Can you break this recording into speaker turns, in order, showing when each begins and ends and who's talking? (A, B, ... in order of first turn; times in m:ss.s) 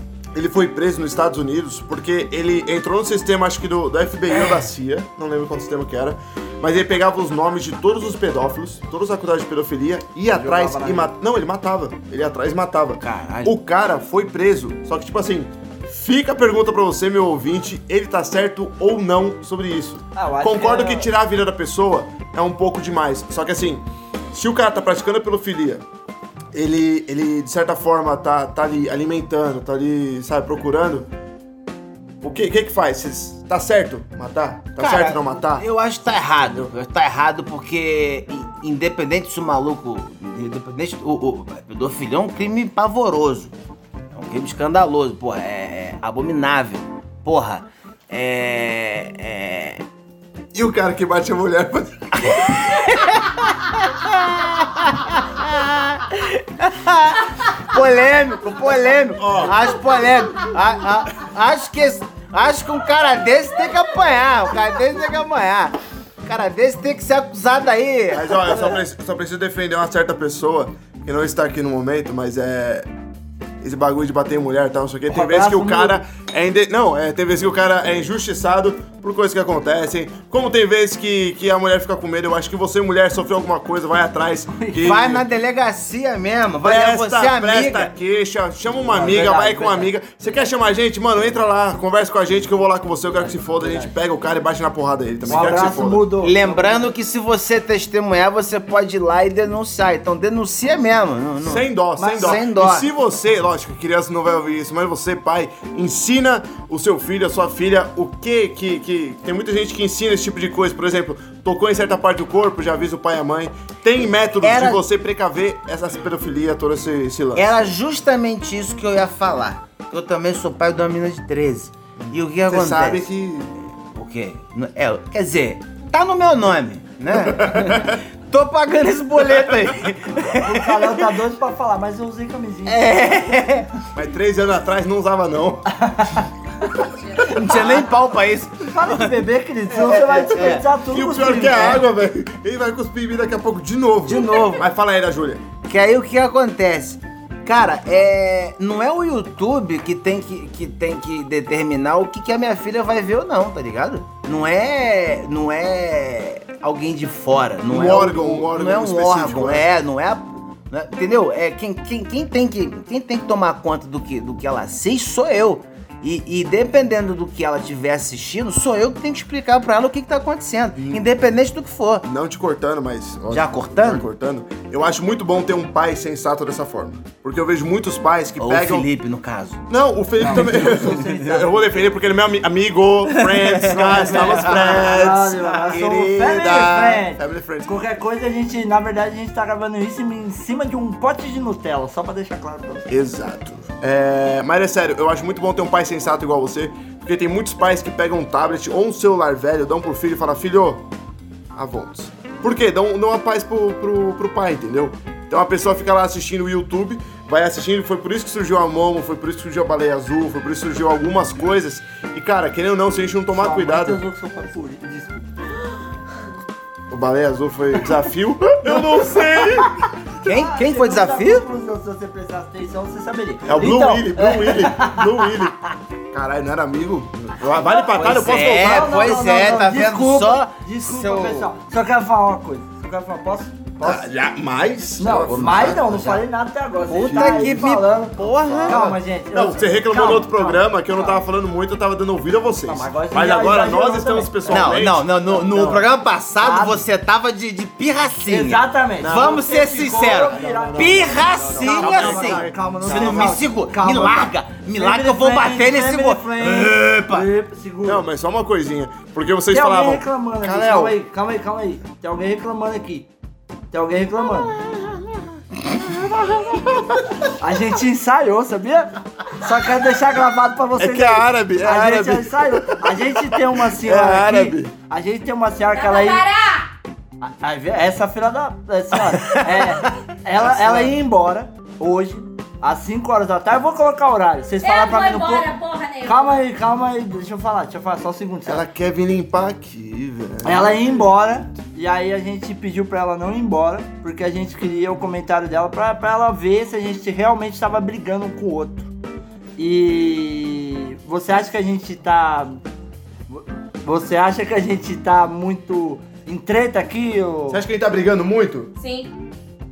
0:00.3-0:25.8 A
0:10.3-0:11.1 B
0:13.0-0:13.5 C
0:20.2-0:21.1 B
0:26.5-0:31.1 A
0:32.2-0:35.7 A
0:34.8-0:43.5 C
0:44.1-0:49.8 C
0:50.5-0:52.5 A
0:52.2-1:08.7 C
0:59.2-0:59.6 A
1:08.1-1:12.9 A
1:13.6-1:25.2 A
1:15.1-1:16.0 B
1:24.6-1:25.0 B
1:24.8-1:27.9 C
1:26.6-1:36.1 A
1:28.8-1:29.9 B
1:33.1-1:33.9 B
1:35.3-1:36.9 B
1:36.2-1:42.9 C
1:41.4-1:57.6 A
1:42.0-1:42.4 B
1:54.4-1:54.8 C
1:57.4-2:03.1 C
2:02.0-2:03.5 A
2:03.9-2:11.1 C
2:07.1-2:08.0 A
2:10.3-2:13.0 B
2:12.7-2:13.7 C
2:14.0-2:15.7 A
2:15.7-2:16.3 B
2:17.2-2:20.6 C
2:17.5-2:17.7 B
2:18.7-2:21.8 B
2:20.9-2:25.4 A
2:24.1-2:24.6 C
2:25.7-2:52.0 C
2:37.7-2:39.7 A
2:50.8-2:51.0 A
2:52.0-2:58.9 A
2:53.3-2:54.0 C
2:58.4-2:59.6 C
2:59.7-3:07.7 A
3:00.2-3:01.7 B
3:00.3-3:01.2 C
3:03.2-3:04.9 C
3:03.7-3:12.9 B
3:05.5-3:06.0 C
3:12.9-3:20.8 A
3:21.6-3:34.0 A
3:33.3-3:35.3 B
3:36.9-3:39.8 A
3:38.7-3:39.4 B
3:40.2-3:41.4 C
3:40.2-3:45.3 B
3:43.4-3:45.6 A
3:46.1-3:49.0 A
3:47.6-3:54.1 B
3:48.0-3:51.5 C
3:53.8-3:56.1 A
3:55.0-4:01.2 B
3:55.3-3:56.2 C
3:56.9-3:58.9 C
3:57.1-4:05.8 A
4:02.7-4:04.8 B
4:04.5-4:17.3 C
4:05.5-4:05.9 B
4:06.4-4:06.8 B
4:08.3-4:14.2 B
4:09.0-4:09.5 A
4:10.2-4:13.4 A
4:14.8-4:18.1 B
4:17.8-4:21.0 A
4:19.5-4:23.1 B
4:23.7-4:24.6 B
4:25.7-4:27.0 A
4:27.4-4:36.2 B
4:30.8-4:34.7 A
4:35.7-4:36.7 D
4:37.2-4:45.5 B
4:39.3-4:39.7 C
4:40.4-4:41.0 A
4:44.6-4:46.4 D
4:46.0-4:48.6 B
4:48.5-4:51.0 A
4:50.4-4:58.9 B
4:59.6-5:02.6 B
5:03.3-5:07.6 B
5:07.5-5:08.7 A
5:08.8-5:09.1 D